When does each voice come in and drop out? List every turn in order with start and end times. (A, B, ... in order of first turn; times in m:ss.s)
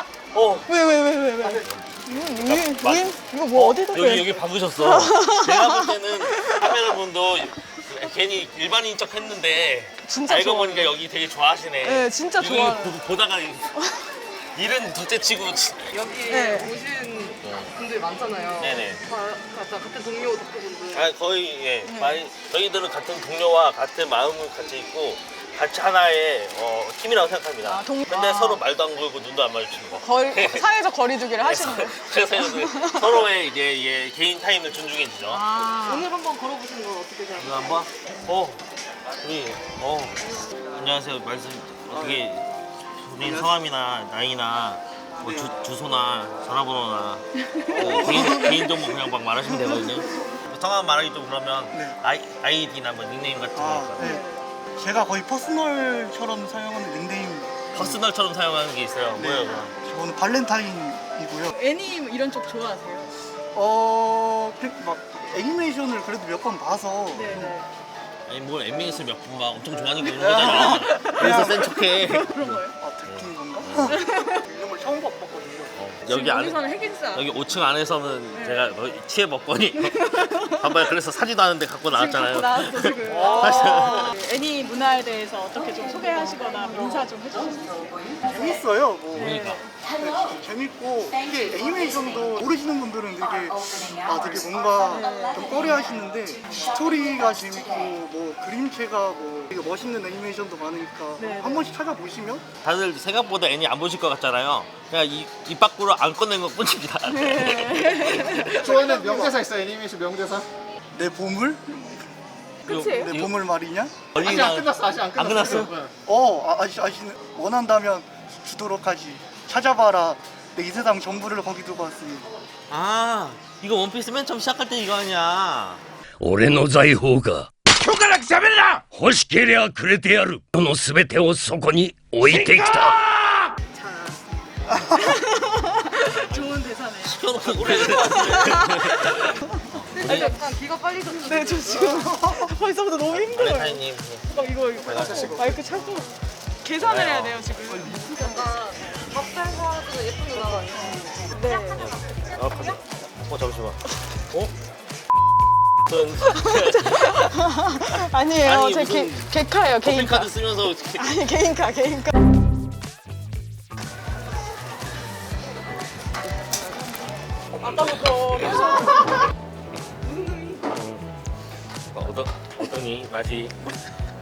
0:00.3-0:00.7 A
0:00.7-0:06.7 B
0:01.4-0:03.0 A
0:03.5-0:13.8 A
0:10.0-0:11.0 B
0:11.8-0:13.0 B
0:13.8-0:14.1 B
0:14.5-0:16.0 A
0:15.9-0:21.1 C
0:16.3-0:16.7 B
0:17.4-0:17.7 A
0:18.6-0:19.0 A
0:20.9-0:30.6 A
0:21.9-0:22.2 B
0:27.6-0:28.6 B
0:30.0-0:33.2 B
0:31.4-0:35.4 A
0:35.3-0:36.1 B
0:35.7-0:37.7 C
0:37.4-0:38.6 A
0:39.2-0:40.2 A
0:40.3-0:40.5 C
0:40.7-0:42.5 A
0:41.9-0:42.2 D
0:43.0-0:54.1 A
0:43.2-0:43.6 D
0:45.2-0:45.6 D
0:47.5-0:48.6 B
0:47.7-0:48.6 D
0:51.7-0:52.0 D
0:53.5-0:58.0 D
0:54.0-0:54.4 B
0:57.7-0:59.7 A
0:59.2-1:01.6 D
1:01.5-1:03.1 B
1:03.5-1:07.6 D
1:07.1-1:07.7 B
1:08.3-1:14.0 A
1:10.0-1:11.7 D
1:10.4-1:12.8 B
1:12.5-1:15.8 D
1:13.8-1:14.4 B
1:15.8-1:24.1 A
1:16.1-1:17.3 B
1:18.3-1:18.8 B
1:19.8-1:20.8 B
1:21.9-1:28.4 B
1:23.1-1:24.1 D
1:28.2-1:29.4 D
1:29.1-1:29.6 A
1:29.1-1:29.7 B
1:30.0-1:42.4 D
1:34.9-1:35.6 B
1:41.2-1:41.7 B
1:42.6-1:48.6 A
1:47.1-1:49.1 B
1:48.6-1:50.5 E
1:49.0-1:49.3 D
1:50.9-1:52.0 D
1:52.6-1:54.0 D
1:52.7-1:53.2 B
1:52.7-1:53.3 A
1:54.1-1:55.8 A
1:54.2-1:55.9 E
1:56.0-2:02.3 D
2:02.7-2:05.8 A
2:06.2-2:13.3 F
2:08.0-2:08.8 E
2:13.7-2:20.3 B
2:17.0-2:20.4 A
2:19.9-2:22.1 C
2:21.2-2:28.6 B
2:22.2-2:22.5 D
2:23.1-2:24.3 A
2:24.8-2:25.4 A
2:24.9-2:25.8 C
2:26.8-2:27.4 A
2:27.7-2:32.6 C
2:31.3-2:32.0 B
2:31.8-2:33.8 A
2:35.9-2:39.3 A
2:36.3-2:40.3 B
2:39.8-2:41.1 A
2:41.0-2:42.1 B
2:47.6-2:49.0 B
2:50.7-2:51.0 A
2:51.9-2:53.5 A